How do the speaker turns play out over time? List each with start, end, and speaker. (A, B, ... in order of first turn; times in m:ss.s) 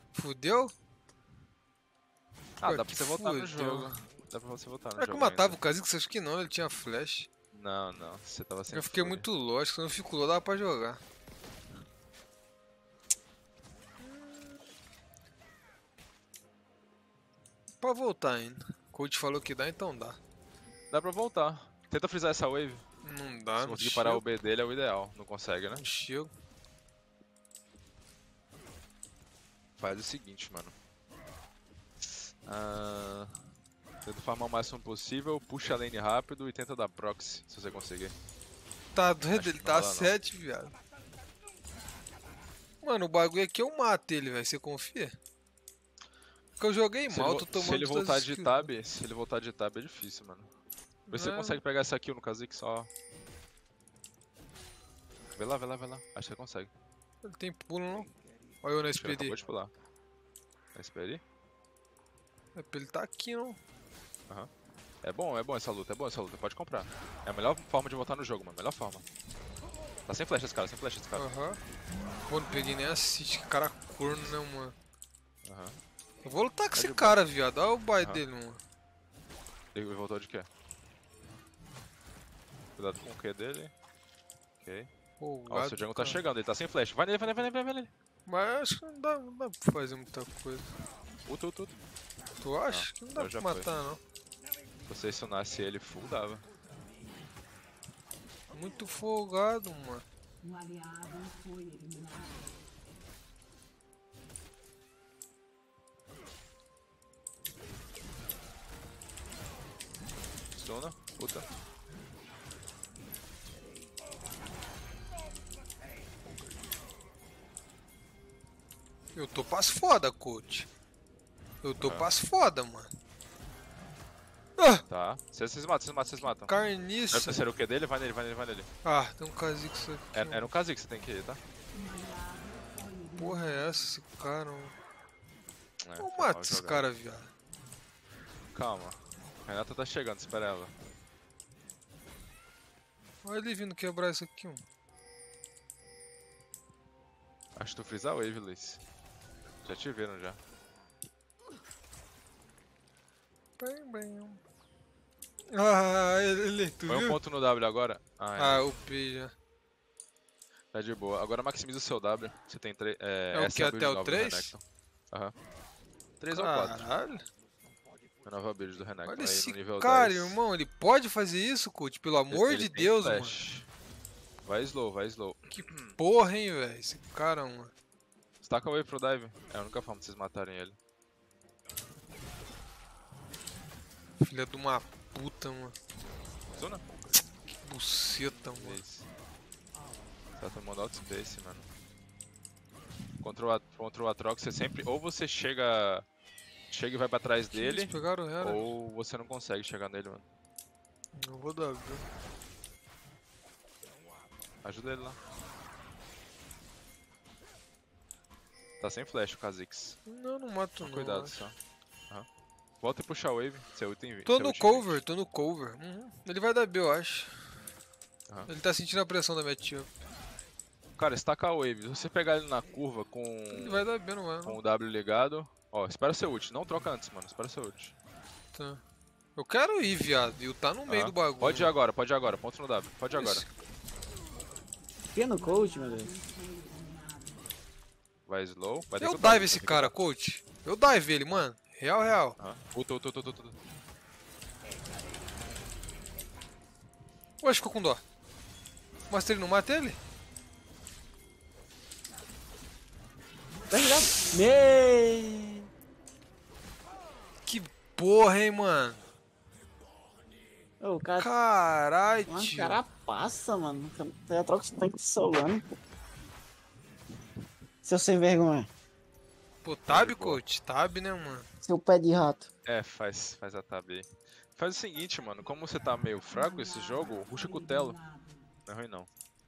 0:00.1-0:00.7 A
0:02.6-0:05.6 B
0:02.6-0:03.9 A
0:05.0-0:07.3 A
0:07.5-0:09.2 B
0:08.7-0:11.0 A
0:14.0-0:14.5 A
0:17.8-0:20.2 A
0:20.9-0:22.8 B
0:23.0-0:24.2 A
0:23.6-0:25.8 B
0:25.7-0:26.3 A
0:29.8-0:30.7 B
0:32.0-0:33.4 B
0:34.0-0:38.1 B
0:38.9-0:40.7 A
0:39.3-0:40.1 B
0:42.8-0:45.1 A
0:46.6-0:48.7 A
0:47.1-0:50.5 B
0:51.1-0:51.6 A
0:51.1-0:52.9 B
0:55.3-0:56.7 B
0:57.2-0:58.1 A
0:58.6-0:59.4 A
0:59.0-0:59.7 B
1:00.7-1:01.2 B
1:02.5-1:03.6 A
1:05.0-1:09.0 B
1:10.1-1:11.2 B
1:11.2-1:11.6 A
1:12.3-1:14.7 A
1:15.4-1:15.8 B
1:16.2-1:18.6 A
1:16.7-1:17.2 B
1:19.7-1:20.5 B
1:22.8-1:23.7 B
1:24.6-1:24.9 B
1:25.2-1:26.2 A
1:25.5-1:27.9 B
1:28.3-1:30.7 A
1:31.2-1:31.8 B
1:32.4-1:34.0 A
1:32.7-1:33.7 B
1:34.9-1:36.4 B
1:38.5-1:40.0 A
1:50.6-1:51.4 B
1:59.1-2:00.7 A
2:01.6-2:02.9 A
2:01.8-2:02.1 B
2:04.6-2:04.8 A
2:04.9-2:06.5 B
2:06.4-2:07.4 A
2:07.1-2:08.7 B
2:08.8-2:10.5 A
2:10.1-2:11.4 B
2:13.2-2:14.8 A
2:15.8-2:16.8 B
2:16.0-2:17.3 A
2:18.5-2:20.7 B
2:23.2-2:24.6 A
2:27.6-2:28.8 B
2:29.6-2:30.4 B
2:33.6-2:34.4 A
2:35.5-2:37.2 A
2:36.9-2:38.7 B
2:38.4-2:39.3 A
2:40.7-2:45.3 B
2:43.3-2:44.5 A
2:46.2-2:46.9 B
2:46.3-2:47.2 A
2:48.2-2:50.4 B
2:49.0-2:53.4 A
2:52.3-2:53.6 B
2:54.4-2:56.0 B
2:55.5-2:57.7 A
2:58.4-3:00.8 B
3:04.2-3:05.7 A
3:06.5-3:07.1 B
3:07.6-3:08.8 A
3:08.3-3:09.1 B
3:10.4-3:11.7 B
3:13.2-3:16.0 B
3:16.7-3:20.2 B
3:17.5-3:18.7 A
3:21.2-3:22.1 A
3:24.6-3:25.2 B
3:28.8-3:30.0 B
3:30.1-3:31.4 A
3:30.8-3:31.5 B
3:32.8-3:35.0 B
3:34.3-3:37.4 A
3:38.5-3:39.9 A
3:41.0-3:43.9 B
3:43.5-3:44.6 A
3:44.4-3:47.9 B
3:48.5-3:48.8 A
3:49.4-3:51.8 A
3:50.9-3:53.4 B
3:53.1-3:53.5 A
3:55.2-3:56.1 C
3:58.3-3:59.9 B
3:59.0-4:02.4 A
4:02.4-4:03.5 B
4:07.4-4:08.0 A
4:09.1-4:10.0 A
4:13.7-4:15.6 C
4:17.4-4:19.0 A
4:20.8-4:21.2 C
4:21.2-4:22.8 A
4:22.3-4:25.6 C
4:27.8-4:28.7 C
4:29.6-4:31.5 A
4:29.9-4:30.4 B
4:31.6-4:32.5 C
4:32.6-4:38.0 B
4:38.7-4:39.1 B